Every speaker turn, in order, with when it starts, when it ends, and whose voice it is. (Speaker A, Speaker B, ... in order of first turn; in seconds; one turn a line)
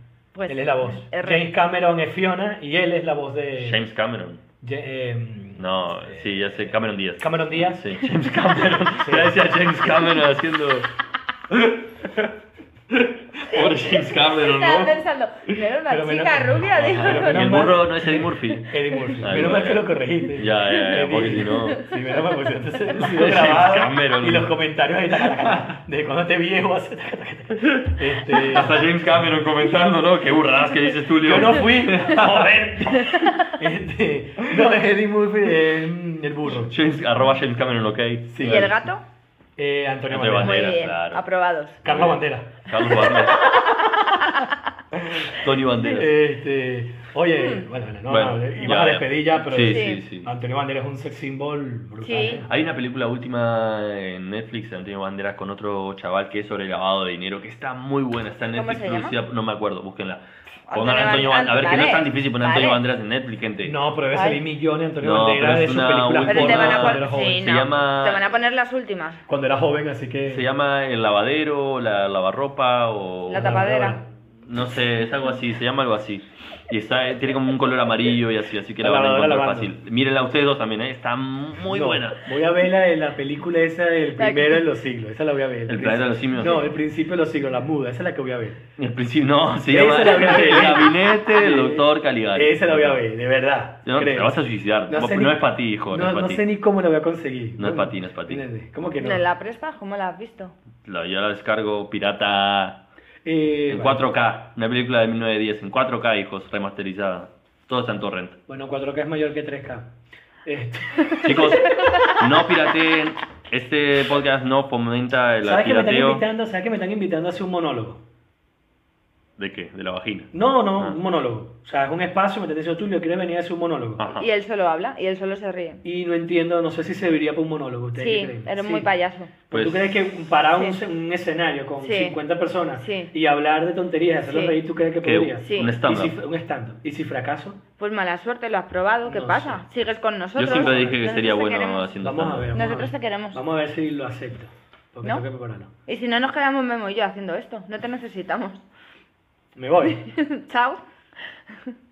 Speaker A: 0.3-1.4
Speaker B: 0.5-3.8
Speaker C: 3.6-4.4
Speaker B: 4.6-6.5
Speaker C: 5.6-10.9
Speaker B: 7.2-8.0
Speaker B: 9.0-9.4
Speaker C: 11.5-12.1
Speaker C: 12.9-15.5
Speaker A: 13.6-17.8
Speaker B: 15.9-29.3
Speaker C: 16.8-21.8
Speaker C: 22.9-24.5
Speaker C: 28.2-33.2
Speaker B: 31.2-36.7
Speaker C: 36.5-38.7
Speaker B: 38.3-38.9
Speaker A: 38.4-39.0
Speaker B: 39.6-40.7
Speaker C: 40.1-41.2
Speaker A: 40.4-41.8
Speaker B: 41.8-43.0
Speaker C: 41.8-43.5
Speaker A: 43.0-44.5
Speaker B: 44.9-52.5
Speaker C: 45.3-46.1
Speaker A: 47.4-47.6
Speaker C: 48.1-50.3
Speaker A: 49.6-50.0
Speaker A: 52.0-52.4
Speaker C: 52.5-63.8
Speaker A: 58.5-59.1
Speaker A: 60.7-62.8
Speaker B: 63.6-67.4
Speaker A: 64.1-64.4
Speaker C: 65.0-68.3
Speaker A: 66.3-69.2
Speaker B: 69.3-70.5
Speaker C: 70.3-73.5
Speaker A: 73.3-74.0
Speaker B: 73.3-74.1
Speaker C: 74.5-82.2
Speaker B: 78.8-79.7
Speaker B: 81.7-88.6
Speaker A: 84.2-84.6
Speaker C: 85.7-86.5
Speaker C: 88.8-93.0
Speaker B: 89.7-99.2
Speaker C: 93.8-96.4
Speaker C: 97.6-98.5
Speaker A: 99.0-100.5
Speaker C: 100.8-102.8
Speaker B: 103.2-104.1
Speaker C: 103.7-108.4
Speaker B: 108.5-109.9
Speaker B: 110.5-112.2
Speaker C: 111.2-116.2
Speaker B: 115.4-118.0
Speaker C: 119.4-121.0
Speaker B: 120.3-124.0
Speaker C: 124.0-124.3
Speaker A: 124.2-125.8
Speaker B: 125.8-128.9
Speaker A: 128.0-129.3
Speaker B: 129.5-137.6
Speaker C: 129.5-130.1
Speaker A: 130.5-130.8
Speaker A: 131.8-132.2
Speaker A: 132.8-133.1
Speaker A: 134.2-134.6
Speaker C: 135.0-136.2
Speaker A: 135.4-135.7
Speaker A: 137.8-141.9
Speaker B: 139.1-139.6
Speaker C: 140.4-142.5
Speaker B: 140.5-141.0
Speaker B: 142.0-145.7
Speaker A: 142.5-143.4
Speaker A: 145.9-148.6
Speaker B: 149.6-150.0
Speaker A: 149.8-150.8